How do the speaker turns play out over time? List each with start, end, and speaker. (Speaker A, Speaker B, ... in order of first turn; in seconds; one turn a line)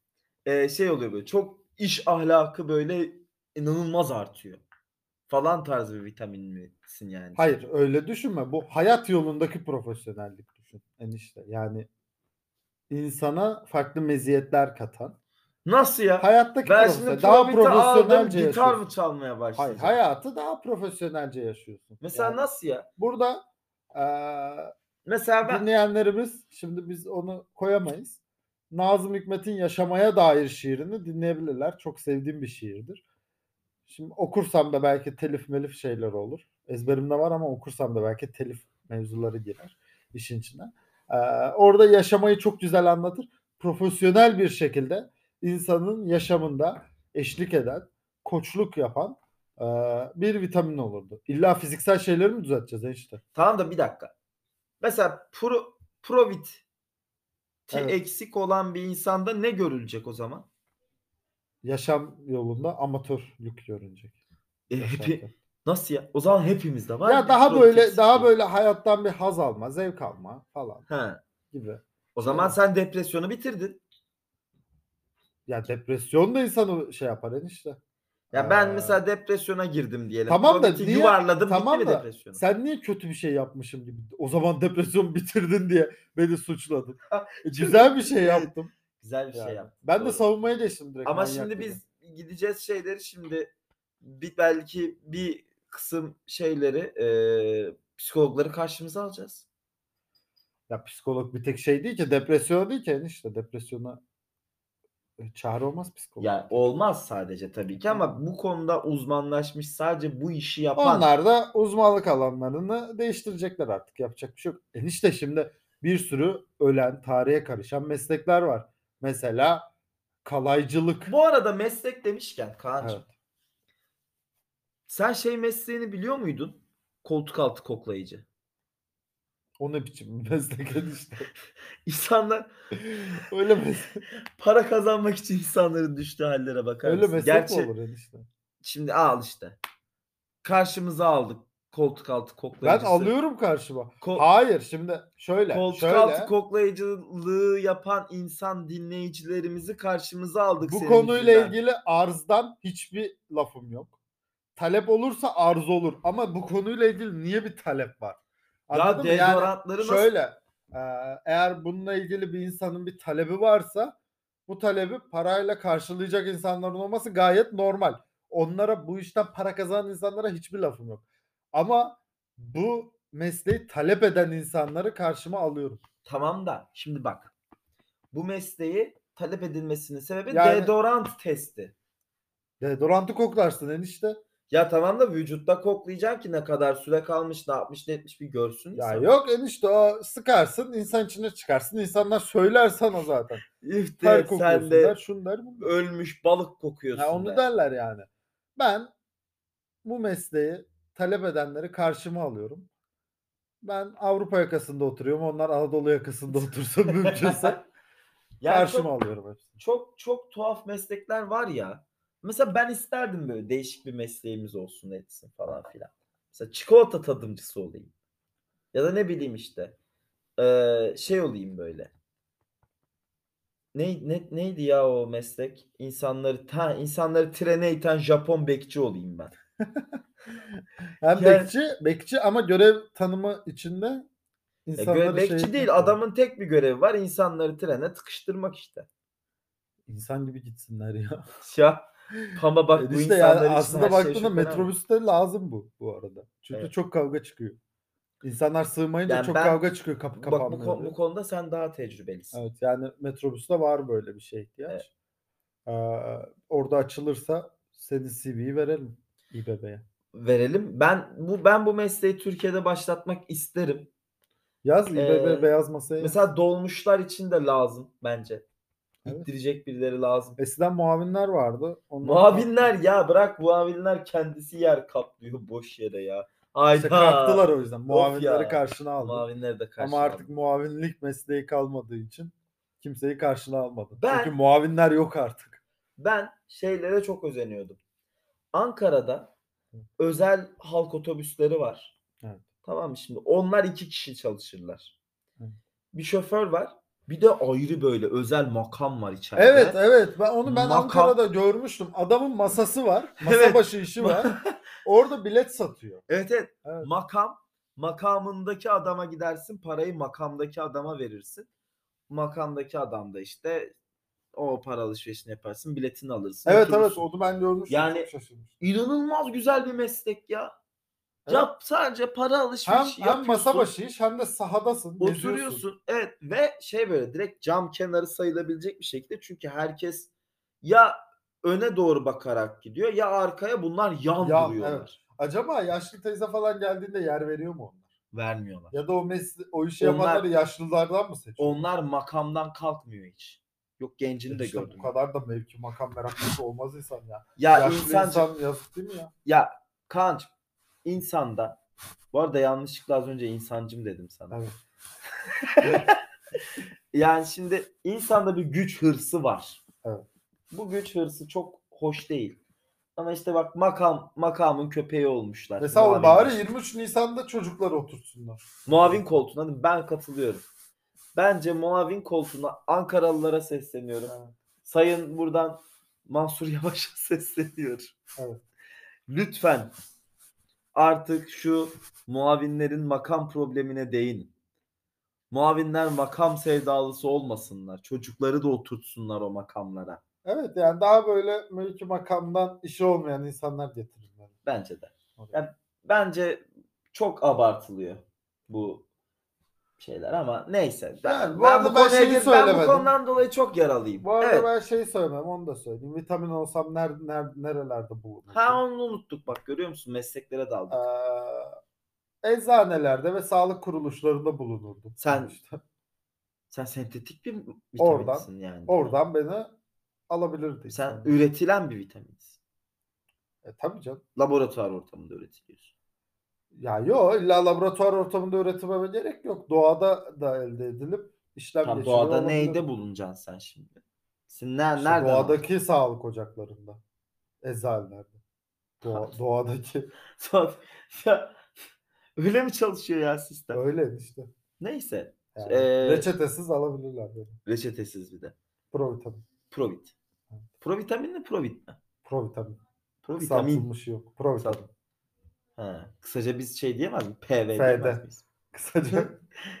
Speaker A: 0.4-4.6
Speaker A: 5.3-7.6
Speaker B: 7.3-11.9
Speaker B: 12.9-15.2
Speaker A: 15.6-20.0
Speaker B: 16.2-18.8
Speaker B: 19.6-22.4
Speaker A: 22.0-22.9
Speaker B: 23.0-24.7
Speaker A: 25.1-25.7
Speaker B: 25.4-28.2
Speaker B: 28.7-33.0
Speaker B: 33.9-53.2
Speaker A: 53.3-54.1
Speaker A: 54.8-56.6
Speaker A: 57.7-60.5
Speaker B: 57.7-58.0
Speaker B: 61.6-64.1
Speaker A: 64.7-68.3
Speaker B: 64.8-65.3
Speaker B: 67.0-70.8
Speaker A: 70.9-71.2
Speaker B: 71.5-72.5
Speaker A: 72.1-73.8
Speaker B: 75.5-77.8
Speaker B: 78.3-79.0
Speaker A: 78.3-82.4
Speaker B: 80.3-88.7
Speaker A: 87.1-90.2
Speaker B: 89.3-91.8
Speaker A: 91.0-99.5
Speaker B: 100.7-104.0
Speaker B: 105.2-106.7
Speaker A: 106.2-111.1
Speaker B: 107.9-108.1
Speaker B: 110.8-119.7
Speaker B: 120.2-121.1
Speaker A: 121.0-123.1
Speaker B: 122.8-123.1
Speaker A: 124.9-128.2
Speaker B: 129.6-131.3
Speaker A: 131.8-132.5
Speaker B: 132.7-134.0
Speaker A: 134.4-137.7
Speaker B: 136.8-138.2
Speaker A: 138.6-139.6
Speaker A: 140.4-143.1
Speaker B: 142.6-146.3
Speaker A: 144.0-144.2
Speaker A: 145.5-151.6
Speaker B: 150.6-153.9
Speaker B: 154.6-163.9
Speaker A: 158.7-160.1
Speaker B: 164.5-175.8
Speaker A: 176.0-177.3
Speaker A: 178.1-181.7
Speaker B: 180.3-180.7
Speaker B: 182.6-184.2
Speaker A: 184.5-189.1
Speaker B: 188.8-193.5
Speaker A: 193.6-195.0
Speaker B: 194.0-195.7
Speaker A: 195.6-197.4
Speaker B: 196.9-198.9
Speaker B: 199.8-202.7
Speaker B: 203.6-207.6
Speaker A: 206.9-207.6
Speaker A: 208.4-208.9
Speaker B: 208.4-209.6
Speaker A: 209.6-217.9
Speaker A: 218.7-219.8
Speaker A: 220.4-221.9
Speaker A: 223.7-229.3
Speaker B: 230.5-234.1
Speaker A: 231.1-231.5
Speaker B: 234.7-236.0
Speaker A: 234.8-238.9
Speaker B: 239.9-241.2
Speaker A: 241.4-244.7
Speaker B: 242.3-247.6
Speaker B: 248.2-250.9
Speaker A: 249.1-249.6
Speaker A: 250.2-252.4
Speaker B: 252.3-254.9
Speaker B: 255.7-259.8
Speaker A: 260.1-263.9
Speaker B: 264.6-266.1
Speaker A: 264.9-268.4
Speaker A: 269.1-270.4
Speaker B: 270.4-272.7
Speaker A: 272.0-280.3
Speaker B: 276.7-279.2
Speaker B: 279.8-285.6
Speaker A: 283.9-284.3
Speaker A: 286.0-287.8
Speaker A: 288.5-289.3
Speaker A: 290.0-291.9
Speaker A: 292.6-294.9
Speaker A: 295.9-299.8
Speaker B: 299.4-306.0
Speaker A: 300.4-301.2
Speaker A: 303.2-304.5
Speaker A: 306.1-311.5
Speaker A: 312.1-313.7
Speaker A: 314.3-317.0
Speaker B: 316.4-318.5
Speaker A: 317.7-320.5
Speaker B: 321.2-321.5
Speaker A: 321.3-323.7
Speaker B: 322.6-325.6
Speaker A: 325.0-330.1
Speaker A: 330.6-335.0
Speaker B: 334.2-337.9
Speaker A: 338.1-338.7
Speaker B: 338.7-341.6
Speaker A: 339.8-340.3
Speaker A: 341.4-344.9
Speaker B: 344.3-349.1
Speaker A: 347.4-348.3
Speaker A: 349.2-350.3
Speaker A: 350.8-351.6
Speaker A: 352.1-354.4
Speaker B: 354.3-354.6
Speaker A: 355.4-356.0
Speaker A: 356.9-359.6
Speaker A: 360.5-362.4
Speaker A: 362.9-366.4
Speaker B: 365.6-369.0
Speaker A: 368.7-370.4
Speaker A: 371.1-377.9
Speaker B: 374.1-374.3
Speaker B: 378.1-378.4
Speaker A: 379.1-379.7
Speaker A: 380.7-384.3
Speaker A: 385.3-390.0
Speaker B: 390.2-394.3
Speaker A: 394.4-398.9
Speaker A: 399.8-404.5
Speaker B: 401.0-402.9
Speaker B: 404.0-408.6
Speaker A: 408.3-410.8
Speaker B: 410.7-411.6
Speaker B: 412.2-415.6
Speaker A: 415.0-415.4
Speaker A: 416.5-418.9
Speaker B: 417.8-419.5
Speaker B: 420.1-421.2
Speaker A: 420.7-422.4
Speaker B: 423.4-424.0
Speaker A: 424.1-425.7
Speaker B: 426.5-432.6
Speaker A: 431.6-435.4
Speaker B: 434.8-436.8
Speaker B: 437.4-438.2
Speaker B: 438.8-439.9
Speaker A: 438.8-439.1
Speaker A: 440.2-441.4
Speaker A: 442.2-443.6
Speaker B: 443.5-444.3
Speaker A: 444.6-446.1
Speaker B: 445.3-447.4
Speaker A: 447.4-448.3
Speaker B: 448.7-449.2
Speaker A: 449.5-449.9
Speaker A: 450.6-451.8
Speaker B: 452.0-452.6
Speaker A: 453.0-453.7
Speaker B: 453.2-454.7
Speaker A: 455.6-458.2
Speaker B: 457.6-459.1
Speaker A: 458.9-459.2